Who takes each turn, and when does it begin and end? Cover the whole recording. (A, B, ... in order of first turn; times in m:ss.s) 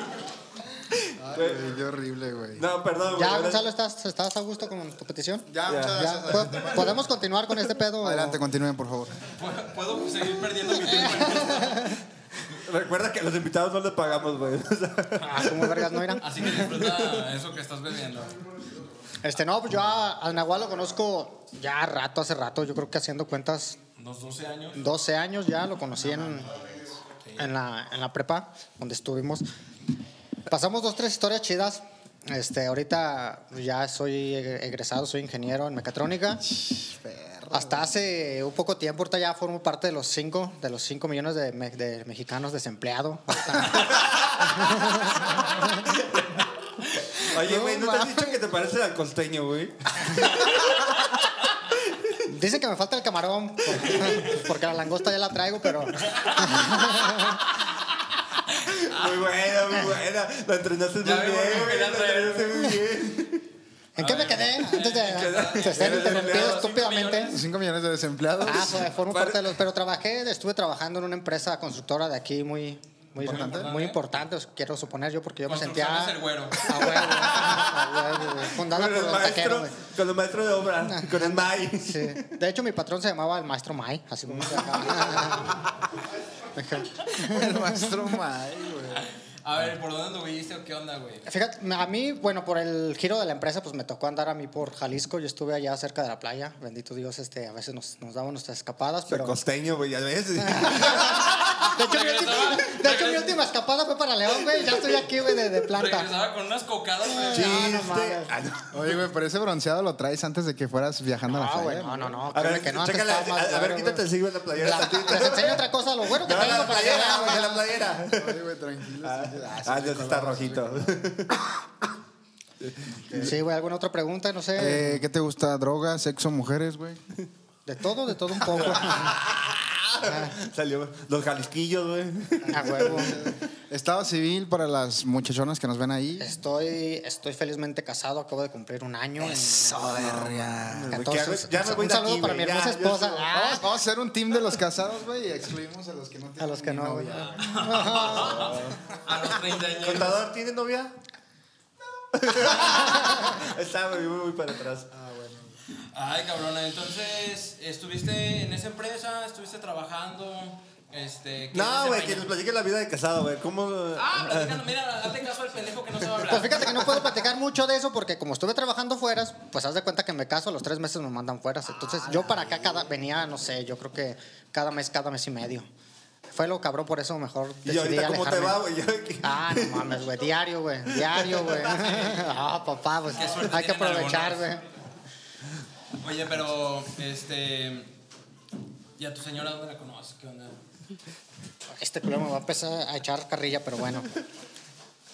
0:01.1-0:01.7 A
0:01.2-0:02.7 B
0:02.6-0:03.7 A
0:03.1-0:08.4 C
0:05.5-0:07.1 B
0:05.7-0:06.1 A
0:08.0-0:09.2 B
0:09.4-0:12.0 D
0:10.9-0:12.0 C
0:12.5-0:17.2 A
0:15.2-0:16.6 C
0:16.2-0:18.4 D
0:19.2-0:23.8 C
0:24.0-0:24.8 D
0:24.8-0:26.6 C
0:26.0-0:27.0 B
0:27.4-0:29.5 C
0:30.5-0:36.4 C
0:36.5-0:37.9 B
0:37.5-0:45.8 C
0:45.9-0:46.4 A
0:47.1-0:50.9 A
0:47.3-0:48.4 B
0:50.1-0:50.5 C
0:51.9-0:52.1 A
0:52.3-0:57.4 C
0:56.0-0:57.4 D
0:58.6-1:03.5 A
0:58.9-0:59.3 D
1:01.0-1:02.8 D
1:04.0-1:07.4 C
1:04.0-1:07.4 D
1:05.0-1:06.6 A
1:07.3-1:08.9 B
1:08.4-1:19.8 C
1:09.1-1:09.6 A
1:13.2-1:13.7 B
1:13.2-1:14.0 D
1:15.5-1:17.1 D
1:17.1-1:22.3 A
1:20.8-1:25.6 C
1:24.3-1:25.4 A
1:26.6-1:28.2 C
1:27.2-1:29.1 B
1:29.0-1:31.2 D
1:31.3-1:39.4 C
1:39.1-1:41.7 A
1:40.4-1:46.1 C
1:41.7-1:43.4 D
1:45.7-1:47.8 D
1:47.1-1:48.3 C
1:47.3-1:48.9 A
1:48.7-1:52.2 B
1:51.3-1:57.6 C
1:52.3-1:58.4 A
1:57.3-2:01.0 B
1:59.0-2:01.4 A
2:02.6-2:03.4 A
2:03.0-2:03.3 B
2:03.1-2:05.0 C
2:04.6-2:07.0 B
2:07.7-2:09.2 C
2:08.5-2:13.4 A
2:10.0-2:10.3 C
2:12.5-2:13.2 C
2:12.6-2:16.3 B
2:16.2-2:23.7 C
2:19.2-2:21.1 B
2:19.9-2:23.3 A
2:23.3-2:27.7 B
2:26.4-2:28.6 C
2:27.3-2:30.2 D
2:28.1-2:28.8 A
2:29.7-2:30.9 A
2:32.1-2:34.9 A
2:34.9-2:35.6 B
2:35.9-2:42.3 D
2:41.5-2:44.6 A
2:44.0-2:47.0 D
2:46.3-2:55.7 C
2:56.3-2:58.6 C
2:57.6-3:00.0 A
2:59.2-3:04.6 C
3:01.0-3:01.7 A
3:03.1-3:04.5 D
3:06.0-3:07.9 D
3:09.0-3:10.6 D
3:11.8-3:14.2 C